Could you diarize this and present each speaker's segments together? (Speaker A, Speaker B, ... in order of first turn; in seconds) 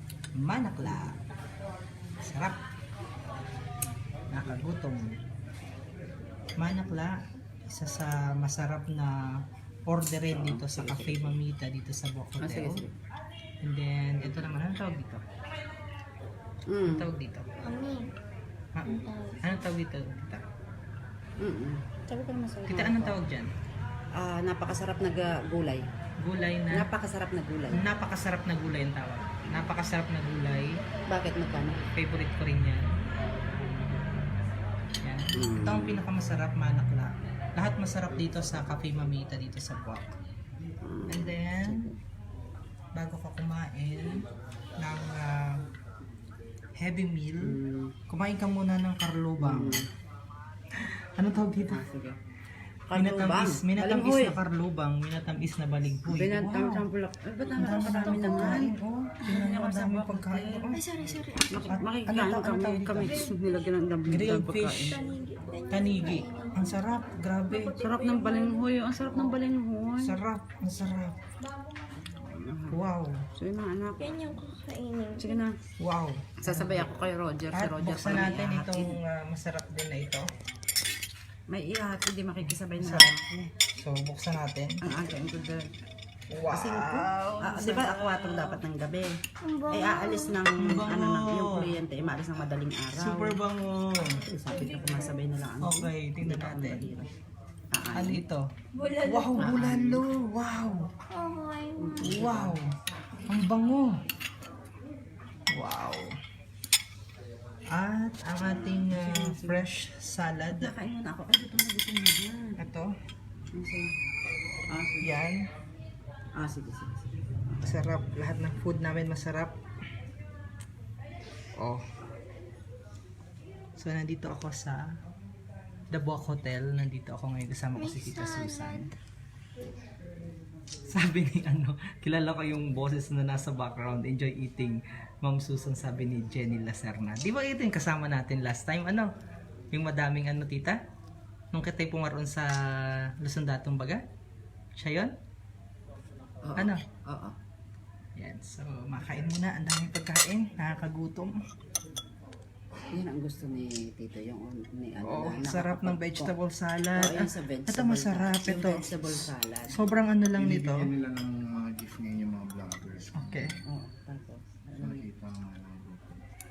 Speaker A: 0.4-1.2, 2.2-2.6, 4.3-5.1, 6.6-9.2, 9.9-12.8, 13.6-15.2, 16.9-17.5, 18.8-20.4, 22.7-23.5, 26.2-26.9, 27.7-30.8, 31.9-32.9, 35.0-40.1, 41.1-41.9, 43.0-44.2, 44.8-45.5, 46.8-47.6, 48.1-49.8, 51.2-51.8, 52.9-56.8, 57.6-60.9, 61.6-63.2, 64.1-65.0, 65.7-67.8, 70.0-71.2, 72.7-73.2, 75.8-76.9, 77.5-80.3, 82.4-83.1, 83.7-84.8, 86.3-88.6, 90.6-91.7, 93.0-95.0, 95.6-97.0, 98.0-98.4, 99.0-100.9, 102.0-102.7, 103.3-104.0, 105.5-106.1, 107.7-110.7, 112.6-112.9, 115.0-115.5, 117.6-119.5, 123.8-124.9, 125.9-128.9, 130.9-139.1, 139.7-140.8, 141.5-142.5, 143.2-144.0, 144.8-145.1, 148.2-151.4, 155.1-160.9, 163.2-163.5
Speaker B: 0.8-1.1, 10.3-11.4, 12.4-12.9, 16.7-17.1, 21.4-23.2, 24.2-25.8, 26.7-27.8, 31.1-31.8, 35.4-36.0, 40.8-42.0, 47.4-47.9, 49.4-49.8, 51.7-52.2, 52.9-54.4, 56.1-60.8, 61.5-65.0, 67.8-70.2, 72.2-72.8, 73.4-74.0, 75.2-75.5, 76.4-79.0, 81.5-83.5, 84.8-85.7, 86.5-89.1, 89.7-93.4, 94.0-97.1, 97.7-98.2, 99.4-100.1, 101.8-102.6, 108.4-109.6, 110.5-112.6, 113.5-113.9, 114.7-115.1, 116.3-117.7, 146.4-147.3, 152.9-156.3, 156.9-159.9, 163.7-165.1
Speaker C: 17.6-18.1, 18.9-19.6, 60.7-61.7, 63.1-63.4, 64.9-69.4, 71.4-72.0, 74.0-75.4, 89.4-90.4, 98.7-99.5, 101.1-102.0, 127.8-128.9
Speaker D: 160.4-163.6, 164.8-166.2